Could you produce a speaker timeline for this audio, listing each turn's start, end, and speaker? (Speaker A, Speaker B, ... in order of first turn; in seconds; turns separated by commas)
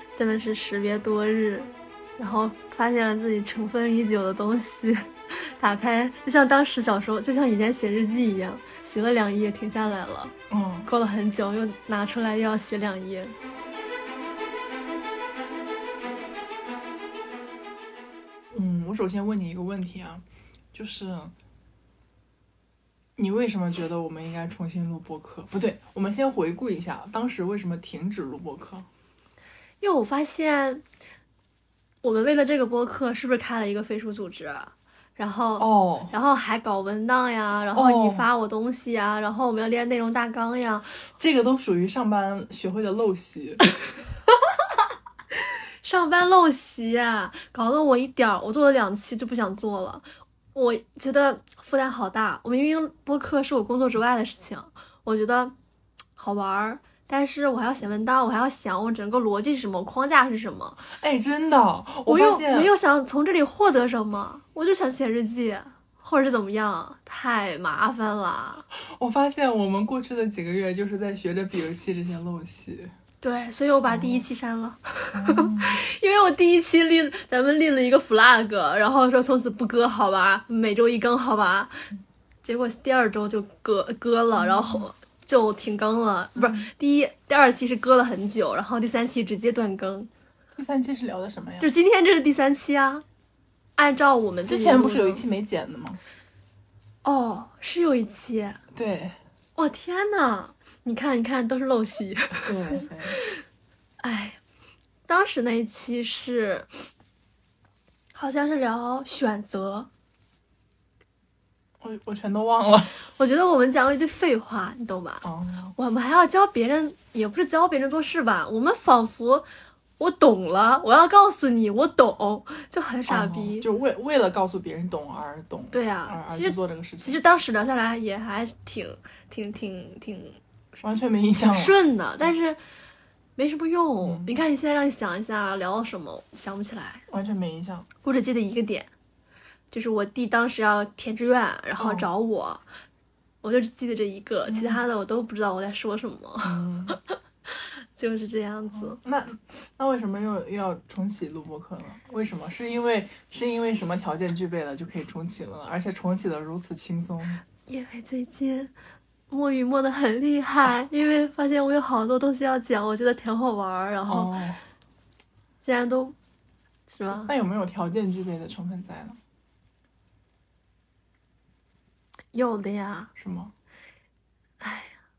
Speaker A: 0.2-10.3, Speaker B: 10.5-10.9, Speaker A: 10.8-13.3, Speaker B: 18.5-21.3, Speaker B: 23.2-28.9, Speaker A: 29.8-30.8, Speaker A: 32.0-40.9, Speaker B: 35.6-36.1, Speaker B: 37.7-38.2, Speaker B: 41.2-43.6, Speaker A: 45.8-55.5, Speaker A: 56.2-60.8, Speaker B: 60.9-62.7, Speaker A: 62.0-68.7, Speaker B: 68.7-72.9, Speaker A: 73.2-81.8, Speaker B: 73.9-74.2, Speaker B: 75.1-75.8, Speaker A: 82.4-90.1, Speaker B: 84.3-84.8, Speaker B: 86.3-86.7, Speaker B: 90.5-91.7, Speaker A: 91.6-93.0, Speaker A: 93.8-95.2, Speaker B: 94.5-96.0, Speaker A: 97.0-98.6, Speaker B: 98.7-99.2, Speaker A: 99.6-103.4, Speaker B: 102.4-103.2, Speaker A: 104.0-104.4, Speaker A: 105.1-106.7, Speaker A: 108.1-109.9, Speaker B: 111.8-113.0, Speaker A: 113.2-115.2, Speaker B: 115.2-115.7, Speaker A: 115.8-119.5, Speaker A: 120.0-123.7, Speaker B: 123.1-127.2, Speaker A: 125.7-130.4, Speaker B: 130.8-131.8, Speaker A: 131.5-132.6, Speaker A: 133.4-137.0, Speaker B: 134.0-134.3, Speaker B: 137.1-137.9, Speaker A: 138.0-138.9, Speaker A: 139.7-142.6, Speaker B: 141.8-142.1, Speaker A: 143.4-149.0, Speaker B: 144.5-144.8, Speaker B: 146.4-147.0, Speaker B: 148.7-157.4, Speaker A: 157.7-158.7, Speaker A: 159.3-164.3, Speaker B: 164.1-164.6, Speaker A: 165.6-166.1, Speaker A: 166.9-167.3, Speaker B: 167.1-169.2, Speaker A: 172.3-173.1, Speaker B: 173.2-173.5, Speaker A: 174.6-174.9